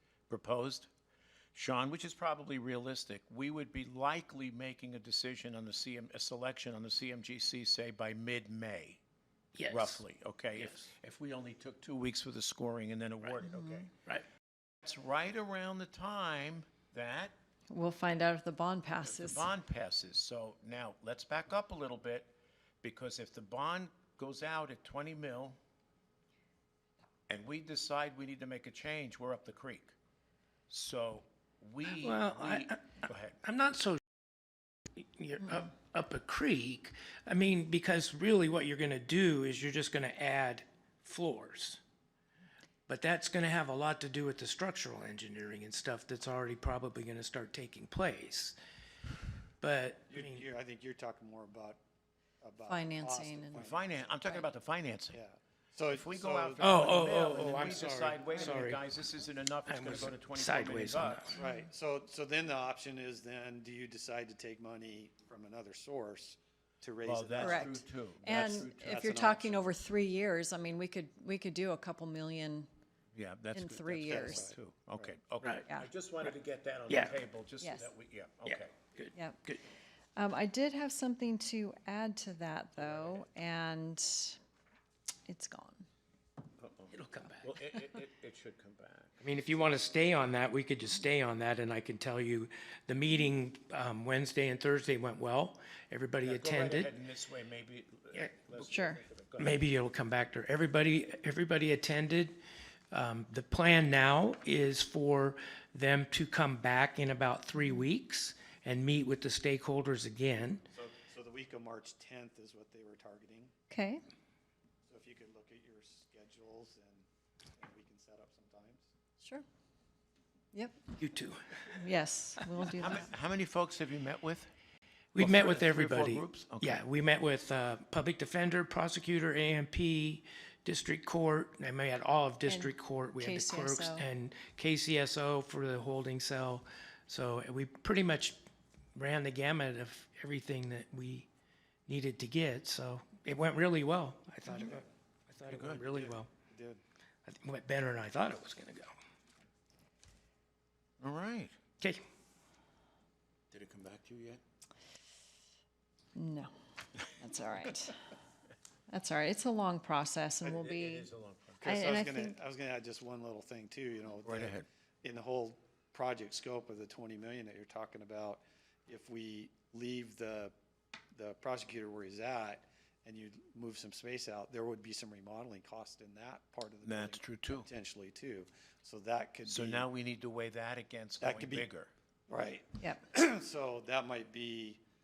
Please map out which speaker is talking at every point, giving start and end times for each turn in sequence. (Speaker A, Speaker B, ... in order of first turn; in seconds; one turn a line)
Speaker A: 0.3-0.9
Speaker A: 1.5-9.0
Speaker B: 9.6-10.0
Speaker A: 9.7-13.9
Speaker B: 10.6-10.9
Speaker C: 13.4-13.9
Speaker A: 14.8-17.4
Speaker C: 17.7-19.5
Speaker A: 19.0-25.6
Speaker A: 27.3-29.9
Speaker A: 30.7-33.4
Speaker B: 31.9-34.0
Speaker B: 35.0-41.8
Speaker B: 42.9-48.5
Speaker B: 49.6-50.5
Speaker D: 50.1-51.8
Speaker D: 52.4-53.9
Speaker C: 52.7-53.7
Speaker A: 53.6-55.2
Speaker D: 55.1-57.9
Speaker A: 55.9-61.3
Speaker B: 56.6-58.8
Speaker B: 59.7-61.4
Speaker D: 61.4-67.8
Speaker A: 67.0-69.0
Speaker C: 67.4-72.7
Speaker D: 68.7-69.8
Speaker A: 73.2-78.8
Speaker C: 73.5-74.5
Speaker D: 74.1-75.1
Speaker B: 75.4-75.7
Speaker B: 76.9-77.2
Speaker C: 77.6-77.9
Speaker B: 78.5-79.6
Speaker C: 79.2-79.4
Speaker C: 80.2-84.4
Speaker A: 82.8-83.2
Speaker C: 85.3-85.8
Speaker A: 86.6-89.2
Speaker B: 86.9-87.5
Speaker B: 89.2-96.9
Speaker A: 96.2-99.6
Speaker C: 98.7-99.0
Speaker B: 99.4-102.4
Speaker B: 102.9-110.6
Speaker D: 110.7-113.5
Speaker C: 113.7-114.0
Speaker D: 114.9-117.1
Speaker D: 117.6-118.9
Speaker C: 120.5-120.8
Speaker B: 121.0-121.8
Speaker C: 121.7-123.1
Speaker A: 122.8-124.5
Speaker B: 125.1-138.4
Speaker A: 125.2-126.8
Speaker C: 132.5-134.1
Speaker B: 138.9-141.3
Speaker B: 141.9-146.3
Speaker A: 145.4-145.8
Speaker D: 145.8-146.8
Speaker B: 147.3-148.9
Speaker A: 151.0-151.6
Speaker A: 153.5-154.4
Speaker C: 156.2-156.5
Speaker C: 157.0-158.0
Speaker C: 158.9-161.1
Speaker A: 160.4-161.6
Speaker C: 161.6-162.4
Speaker D: 161.6-170.5
Speaker A: 164.2-164.7
Speaker D: 171.2-179.9
Speaker A: 176.8-177.7
Speaker A: 179.5-181.9
Speaker D: 181.2-181.7
Speaker D: 182.3-184.8